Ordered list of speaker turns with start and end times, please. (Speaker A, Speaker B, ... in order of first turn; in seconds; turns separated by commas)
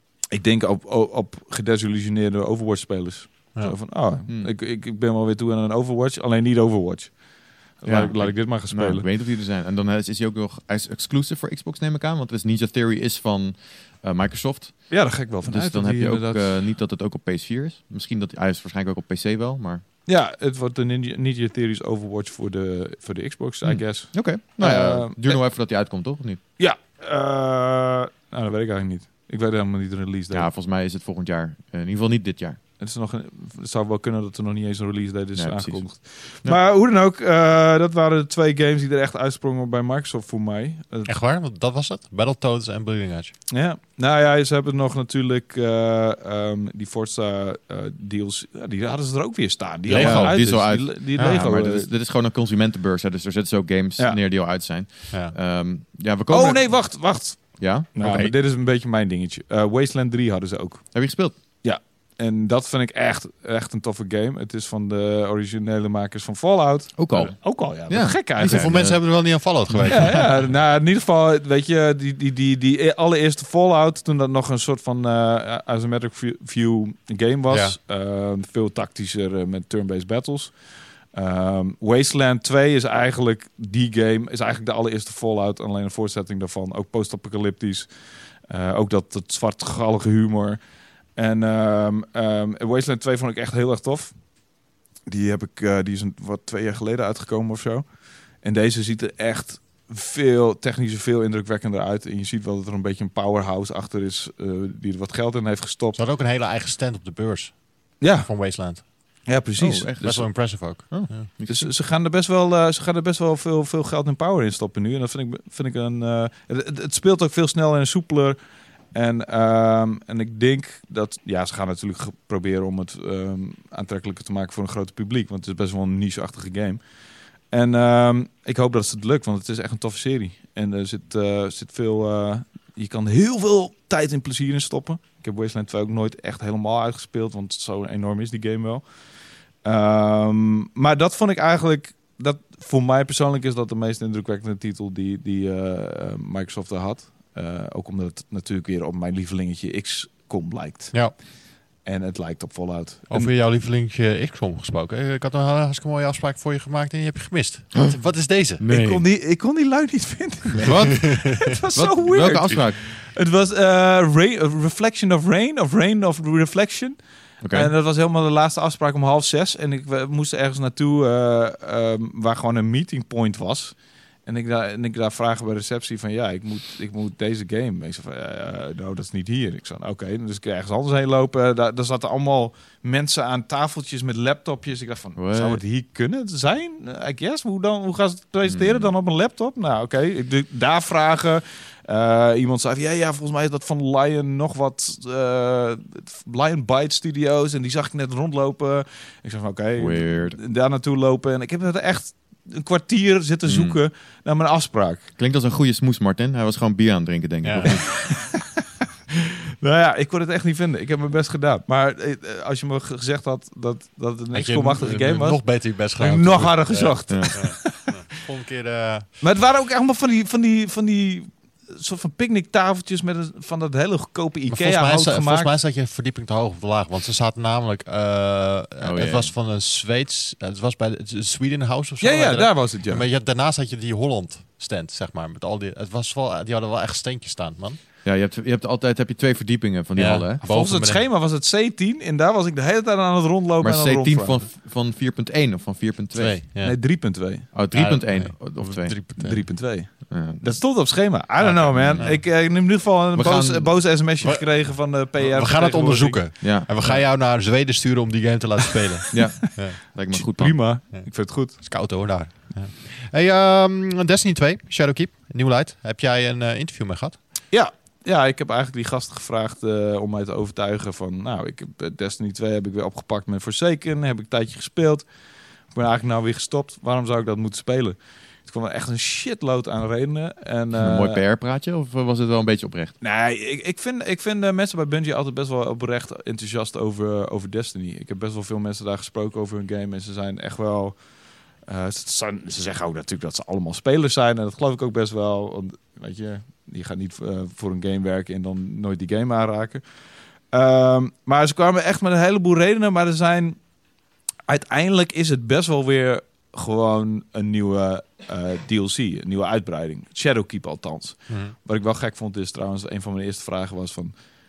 Speaker A: 0.2-9.1, Speaker B: 7.8-19.8, Speaker A: 14.9-16.6, Speaker A: 20.1-25.4, Speaker B: 23.6-26.4, Speaker A: 26.6-30.5, Speaker B: 30.3-32.6, Speaker A: 32.8-41.1, Speaker B: 35.4-35.9, Speaker C: 41.1-43.3, Speaker A: 43.5-51.9, Speaker C: 49.9-51.4, Speaker B: 49.9-57.9, Speaker A: 56.3-68.9, Speaker C: 58.0-58.3, Speaker B: 60.9-61.4, Speaker B: 67.0-70.0, Speaker C: 68.5-70.4, Speaker A: 69.8-106.0, Speaker C: 77.5-77.8, Speaker C: 106.0-109.3, Speaker A: 108.0-110.0, Speaker B: 109.6-111.7, Speaker C: 110.0-111.3, Speaker A: 111.5-151.3, Speaker A: 151.8-153.3, Speaker C: 153.1-158.6, Speaker B: 158.6-159.0, Speaker A: 158.7-205.1, Speaker B: 160.6-162.8, Speaker C: 161.0-161.4, Speaker B: 167.4-167.7, Speaker B: 185.2-185.6, Speaker B: 188.4-188.9, Speaker B: 199.8-200.4, Speaker B: 203.5-203.8, Speaker B: 205.2-208.0, Speaker C: 207.4-207.8, Speaker A: 207.7-208.5, Speaker A: 209.6-218.0, Speaker C: 214.3-219.1, Speaker B: 217.1-217.3, Speaker A: 219.2-225.6, Speaker C: 224.5-237.8, Speaker B: 228.8-229.3, Speaker A: 232.0-233.0, Speaker B: 238.0-240.4, Speaker C: 240.0-241.0, Speaker A: 240.4-244.5, Speaker B: 243.6-246.4, Speaker C: 246.1-246.8, Speaker A: 246.6-247.5, Speaker C: 247.4-249.4, Speaker B: 247.5-249.0, Speaker A: 249.2-256.3, Speaker B: 250.1-250.5, Speaker C: 251.4-252.3, Speaker B: 251.8-253.8, Speaker C: 254.2-259.8, Speaker B: 256.4-257.1, Speaker B: 259.1-260.6, Speaker A: 260.1-261.9, Speaker C: 260.9-267.2, Speaker A: 267.5-281.2, Speaker B: 280.8-282.9, Speaker A: 283.0-303.6, Speaker A: 304.5-314.3, Speaker C: 311.3-311.6